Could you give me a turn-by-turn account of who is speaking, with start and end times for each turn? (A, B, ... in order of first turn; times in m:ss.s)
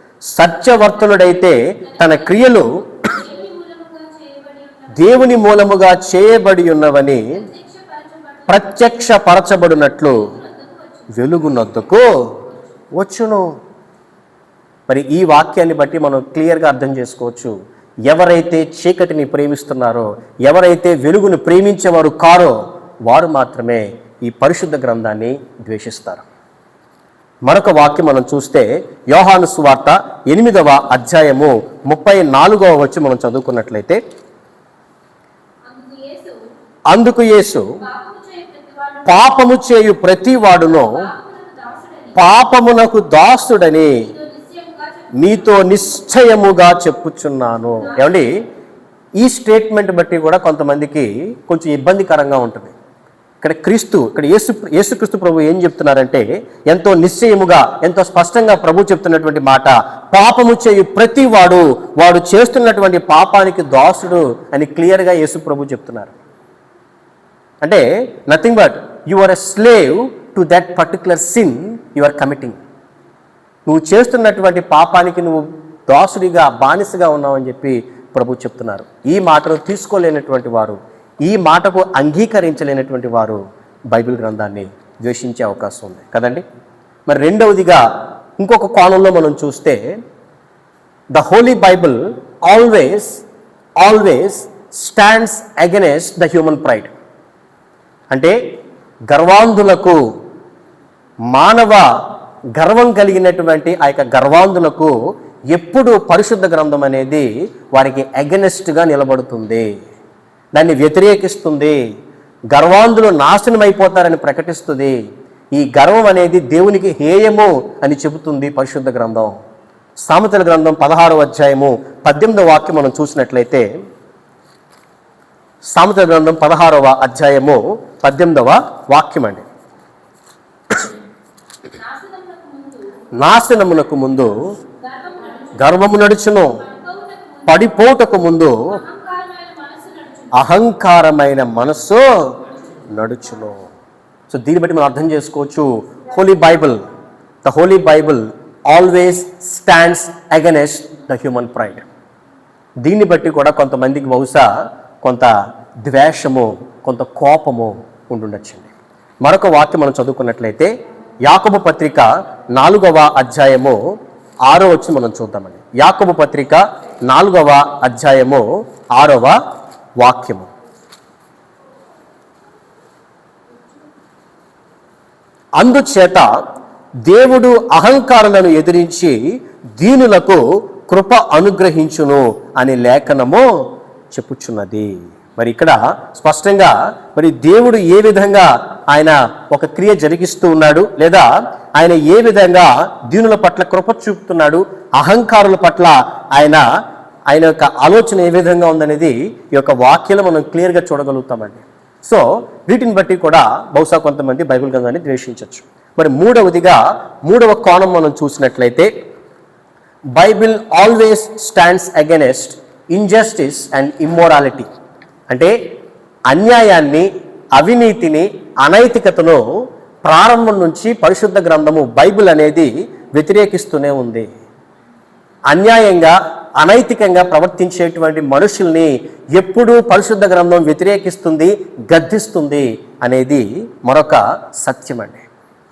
0:00.2-0:02.7 A
0:01.8-0:05.4 B
0:04.9-0:07.4 A
0:07.3-0:08.9 B
0:08.5-0:10.3 A
0:10.0-0:12.7 B
0:11.1-0:12.4 A
0:12.9-0:13.6 A
0:14.9-0:17.6 A
0:18.1-0:26.2 A
0:27.5-0:34.0 A
0:35.6-0:36.4 B
0:36.9-0:37.8 A
0:37.8-0:39.5 B
0:39.0-0:41.0 A
0:40.5-0:42.2 B
0:42.2-0:44.1 A
0:43.9-0:45.8 B
0:45.1-0:48.4 A
0:47.8-0:48.2 B
0:49.2-0:52.7 A
0:53.4-1:06.2 A
1:07.6-1:12.6 A
1:13.7-1:23.4 A
1:23.9-1:26.4 A
1:27.1-1:27.8 A
1:28.4-1:29.8 A
1:31.1-1:33.2 A
1:33.8-1:36.9 A
1:38.1-1:38.4 A
1:39.1-1:40.0 A
1:41.3-1:41.9 A
1:42.6-1:44.9 A
1:45.5-1:49.7 A
1:50.6-1:51.8 A
1:52.5-1:55.0 A
1:55.5-1:59.3 A
2:00.0-2:03.7 A
2:05.7-2:09.4 A
2:11.7-2:12.9 B
2:13.2-2:14.5 A
2:14.8-2:17.7 B
2:15.6-2:16.6 A
2:17.5-2:18.8 A
2:18.7-2:20.5 B
2:20.3-2:23.7 A
2:24.3-2:26.8 A
2:27.4-2:31.9 A
2:32.8-2:35.3 A
2:35.9-2:38.7 A
2:39.2-2:40.7 A
2:41.2-2:43.8 A
2:44.5-2:49.4 A
2:50.0-2:50.5 A
2:55.6-2:56.3 A
2:57.0-2:59.2 A
2:59.8-3:16.6 A
3:17.3-3:28.9 A
3:30.2-3:34.7 A
3:35.3-3:35.6 A
3:36.3-3:39.4 A
3:40.0-3:44.3 A
3:45.5-3:55.2 A